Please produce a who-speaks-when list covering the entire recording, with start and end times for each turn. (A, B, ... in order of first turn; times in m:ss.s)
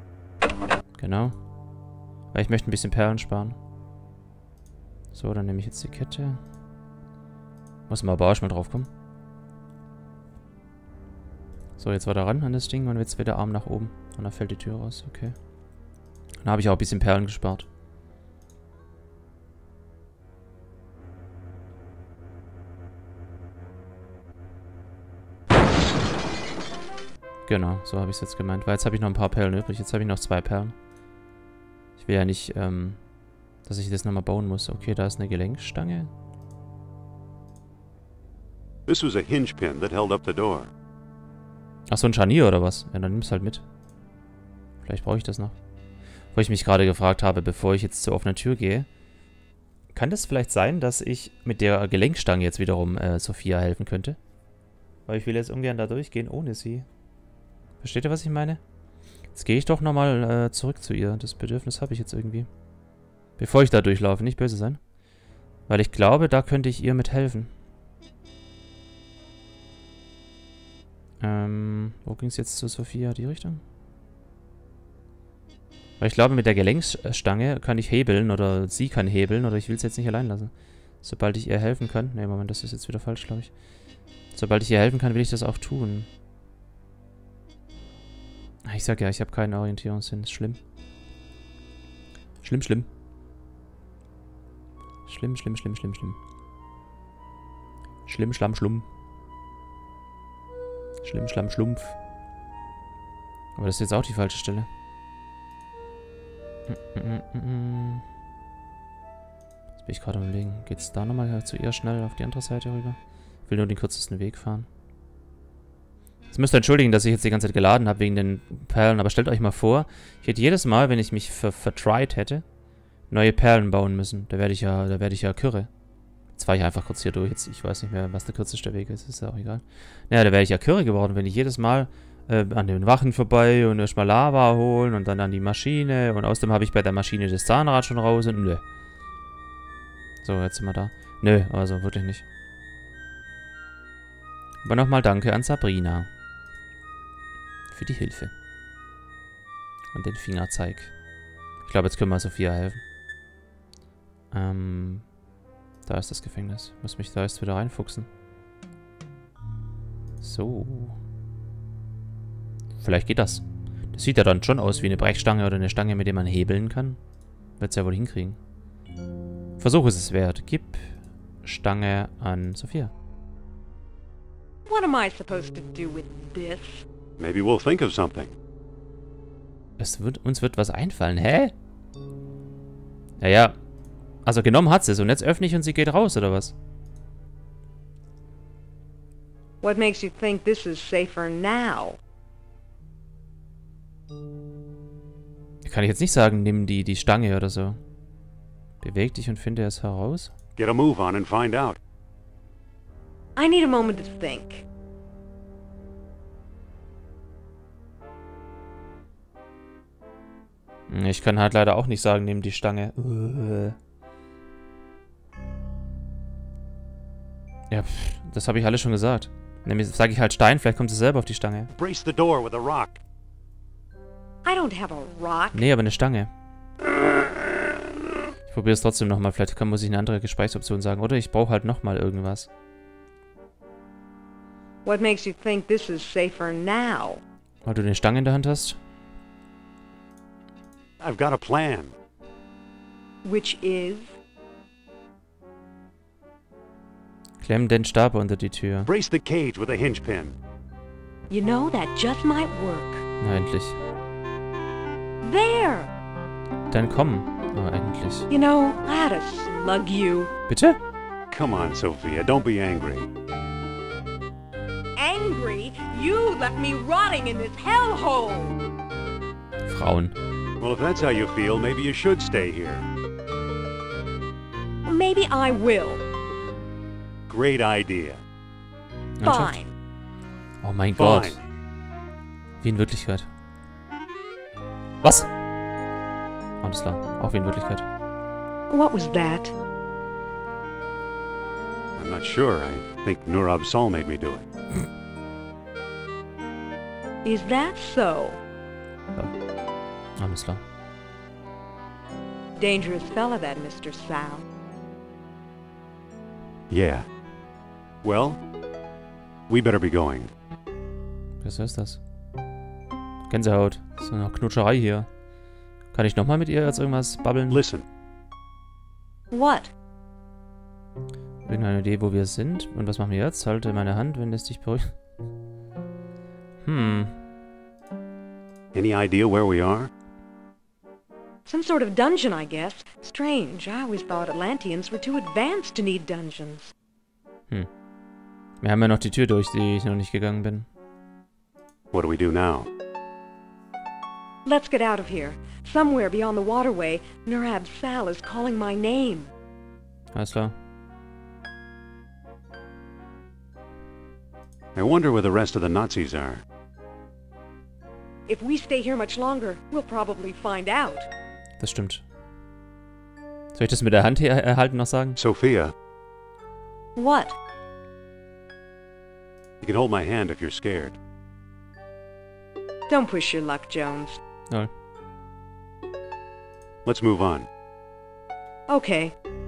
0:01.0-0:01.4 A
0:02.3-0:03.6 A
0:05.1-0:06.4 A
0:07.9-0:08.9 A
0:11.8-0:15.4 A
0:16.4-0:17.7 A
0:27.5-0:30.8 A
0:32.0-0:33.0 A
0:33.6-0:36.1 A
0:38.9-0:40.7 B
0:41.9-0:43.6 A
0:44.8-0:45.6 A
0:46.3-0:48.9 A
0:49.9-0:54.2 A
0:55.1-0:56.9 A
0:57.8-0:58.6 A
0:59.3-1:02.5 A
1:03.4-1:04.8 A
1:05.7-1:07.5 A
1:11.2-1:13.6 A
1:16.0-1:23.5 A
1:24.3-1:26.1 A
1:28.6-1:30.6 A
1:32.4-1:32.9 A
1:35.1-1:36.2 A
1:38.1-1:38.9 A
1:41.0-1:42.0 A
1:43.6-1:44.7 A
1:46.7-1:48.0 A
1:49.8-1:54.7 A
1:56.3-2:02.4 A
2:03.1-2:05.7 A
2:06.3-2:18.6 A
2:20.2-2:22.2 A
2:24.6-2:26.1 A
2:27.7-2:28.3 A
2:29.9-2:30.9 A
2:31.6-2:32.8 A
2:34.3-2:35.1 A
2:35.8-2:38.1 A
2:40.2-2:41.0 A
2:42.8-2:47.0 A
2:47.6-2:48.4 A
2:49.6-2:52.9 A
2:54.7-2:56.8 C
2:57.2-2:58.4 B
2:59.8-3:01.5 A
3:03.2-3:03.6 A
3:04.2-3:06.6 A
3:09.6-3:12.0 C
3:15.6-3:17.8 A
3:18.8-3:20.3 A
3:20.6-3:21.8 B
3:23.4-3:24.6 C
3:30.9-3:33.8 A
3:37.7-3:41.7 A
3:41.7-3:43.0 B
3:44.4-3:45.6 C
3:45.5-3:46.3 A
3:48.5-3:52.5 A
3:54.8-3:57.2 C
3:57.6-3:58.8 A
4:01.0-4:02.0 B
4:03.2-4:04.1 C
4:07.4-4:08.9 A
4:08.9-4:10.4 B
4:11.3-4:13.0 C
4:13.2-4:13.8 A
4:15.2-4:15.9 C
4:16.7-4:18.3 A
4:18.3-4:20.3 C
4:20.5-4:20.8 A
4:21.3-4:23.1 B
4:25.0-4:28.6 C
4:29.7-4:30.2 A
4:30.6-4:32.9 B
4:34.8-4:36.0 C
4:37.3-4:38.2 B
4:39.2-4:39.6 A
4:39.2-4:39.7 C
4:40.6-4:41.4 A
4:41.0-4:41.4 B
4:42.6-4:43.3 A
4:45.0-4:45.3 A
4:46.6-4:47.8 A
4:48.7-4:49.5 C
4:52.0-4:54.5 B
4:57.2-4:58.4 C
5:00.2-5:00.6 A
5:02.6-5:04.4 C
5:06.7-5:07.1 B
5:08.0-5:08.4 B
5:09.5-5:10.3 B
5:11.4-5:12.0 A
5:13.3-5:15.1 A
5:15.9-5:17.6 A
5:17.5-5:17.8 B
5:19.3-5:19.7 C
5:21.5-5:24.9 A
5:26.6-5:27.2 A
5:28.7-5:29.9 B
5:31.5-5:36.7 C
5:38.6-5:40.7 A
5:41.9-5:42.7 B
5:44.4-5:49.3 C
5:50.1-5:50.6 A
5:54.8-5:56.4 B
5:58.3-6:01.1 C
6:01.6-6:02.0 A
6:03.5-6:05.2 A
6:05.2-6:05.7 B
6:07.0-6:07.4 C
6:09.6-6:11.0 B
6:12.9-6:14.2 C
6:16.8-6:17.5 B
6:18.7-6:19.2 C